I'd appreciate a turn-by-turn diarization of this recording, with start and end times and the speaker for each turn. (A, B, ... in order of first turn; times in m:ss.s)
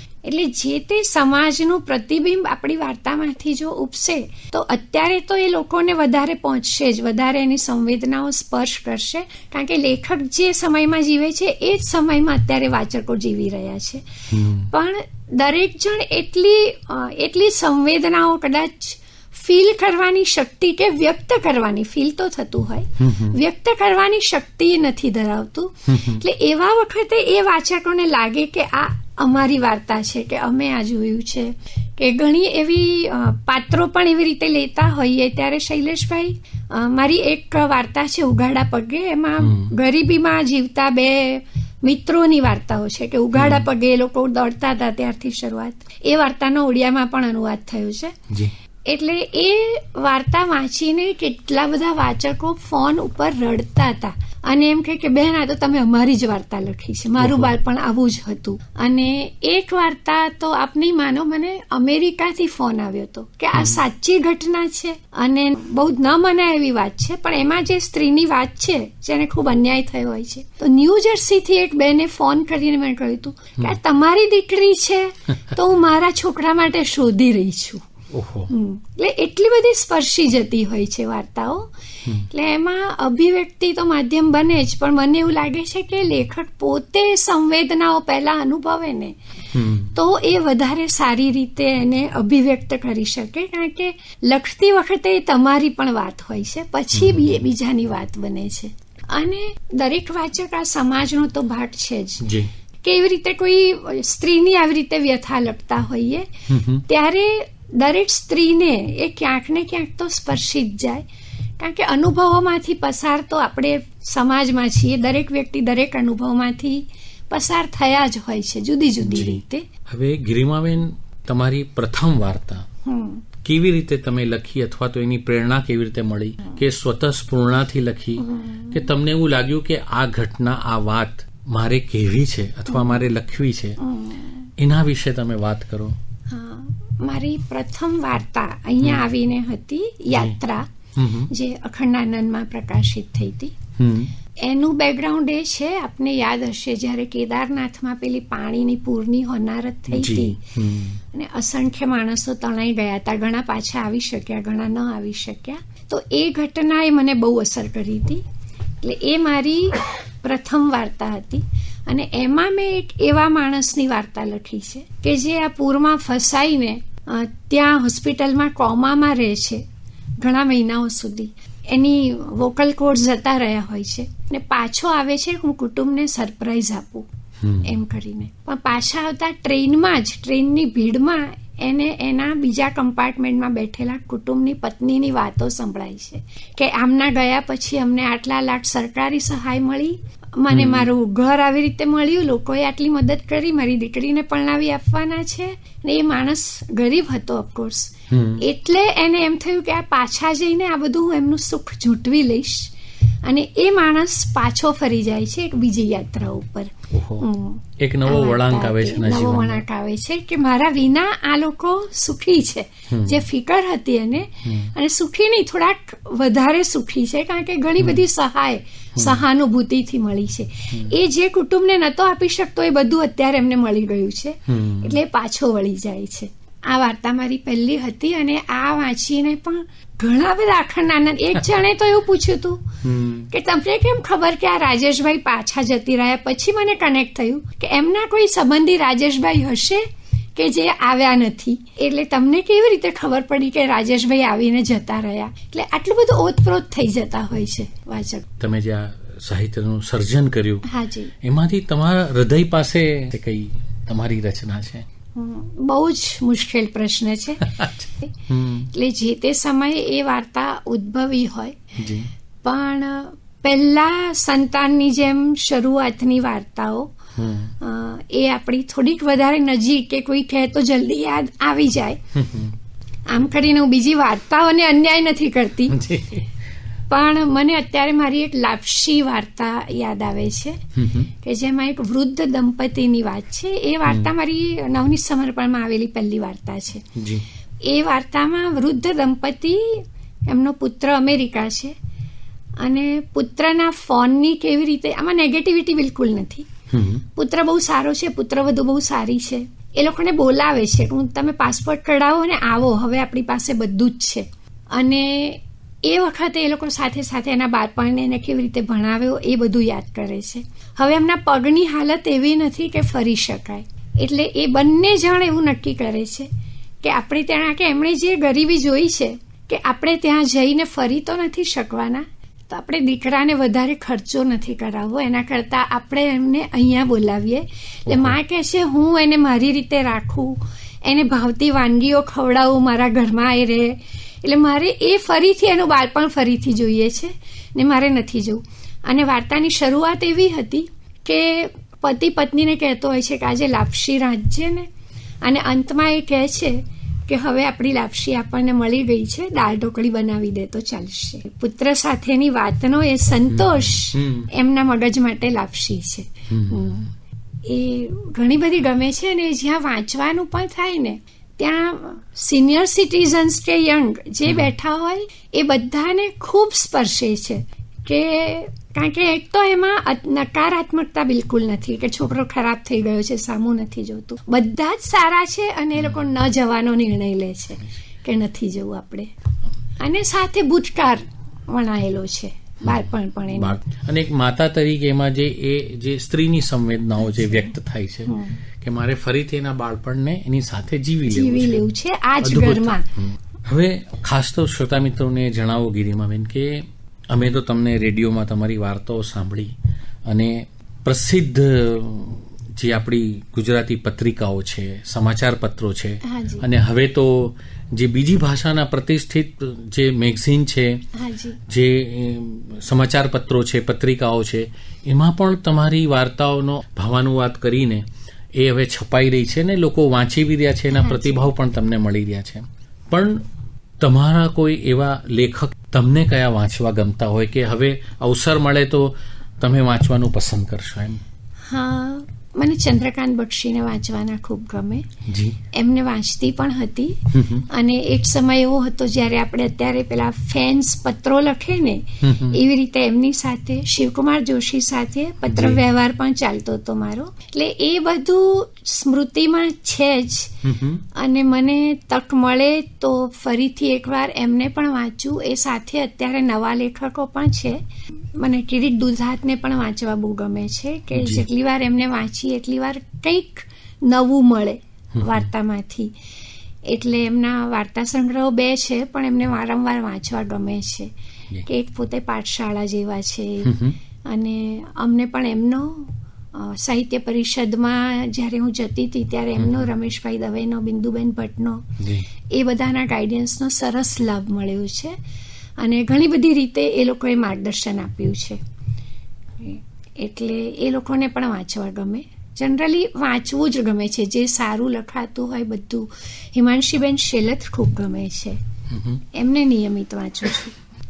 0:00.2-0:48.2 A
0:14.3-0:14.7 B
0:23.0-0:23.4 B
0:25.9-0:26.2 B
0:39.4-0:39.7 B
0:43.3-0:43.7 B
0:48.8-1:17.8 A
0:57.2-0:57.5 B
1:03.5-1:03.8 B
1:18.1-1:18.5 B
1:18.5-1:29.2 A
1:29.5-1:29.9 B
1:29.9-1:42.3 A
1:36.9-1:37.4 B
1:42.2-1:42.5 B
1:42.8-1:51.0 A
1:46.5-1:46.8 B
1:51.6-1:59.7 A
1:59.0-2:02.7 B
2:02.8-2:03.2 A
2:03.4-2:13.8 B
2:08.2-2:08.9 A
2:13.8-2:14.5 A
2:14.6-2:16.0 B
2:16.3-2:20.7 A
2:20.1-2:20.4 B
2:20.9-2:21.3 B
2:21.3-2:23.5 A
2:23.8-2:24.1 B
2:24.4-2:30.4 A
2:29.9-2:31.0 B
2:31.1-2:38.2 A
2:38.8-2:49.6 A
2:50.2-2:57.1 A
2:57.4-2:57.8 B
2:57.6-3:22.7 A
3:10.5-3:10.9 B
3:18.1-3:18.4 B
3:23.2-4:08.2 A
3:26.9-3:27.3 B
3:27.8-3:29.6 B
3:32.9-3:33.2 B
3:34.4-3:34.7 B
3:39.0-3:39.2 B
3:44.5-3:45.0 B
3:52.8-3:53.3 B
4:08.4-4:10.7 B
4:10.6-4:11.1 A
4:11.2-4:14.8 B
4:15.1-4:21.6 A
4:17.4-4:18.7 B
4:21.8-4:22.1 B
4:22.4-4:27.0 A
4:27.2-4:27.5 B
4:27.6-4:32.0 A
4:32.1-4:32.5 B
4:33.1-4:35.8 A
4:35.7-4:36.3 B
4:36.9-4:47.0 A
4:40.8-4:41.1 B
4:43.8-4:44.1 B
4:47.0-4:47.2 B
4:47.6-4:51.7 A
4:52.6-4:56.5 A
4:56.7-4:57.0 B
4:57.1-5:16.3 A
5:16.8-5:44.7 A
5:27.9-5:28.2 B
5:45.2-5:56.9 A
5:53.3-5:54.3 B
5:56.3-5:56.9 B
5:57.4-6:19.1 A
6:04.2-6:04.5 B
6:19.8-6:23.6 A
6:22.6-6:31.7 B
6:28.1-6:28.4 A
6:31.1-6:32.9 A
6:32.2-6:39.5 B
6:40.0-6:50.8 B
6:46.0-6:46.4 A
6:50.9-6:51.4 A
6:51.4-7:03.2 B
7:00.7-7:01.3 A
7:03.8-7:11.0 B
7:11.4-7:14.9 A
7:15.0-7:15.4 B
7:15.5-7:30.4 A
7:17.1-7:17.5 B
7:22.0-7:22.4 B
7:25.2-7:25.6 B
7:30.4-7:30.8 B
7:30.9-7:37.6 A
7:38.2-7:45.9 A
7:40.9-7:41.2 B
7:44.9-7:45.3 B
7:46.6-7:50.9 A
7:51.4-8:01.8 A
7:53.4-7:53.8 B
7:59.4-7:59.7 B
8:01.8-8:02.1 B
8:02.3-8:05.0 A
8:05.6-8:08.4 A
8:09.4-8:18.4 A
8:18.7-8:19.0 B
8:19.1-8:20.6 A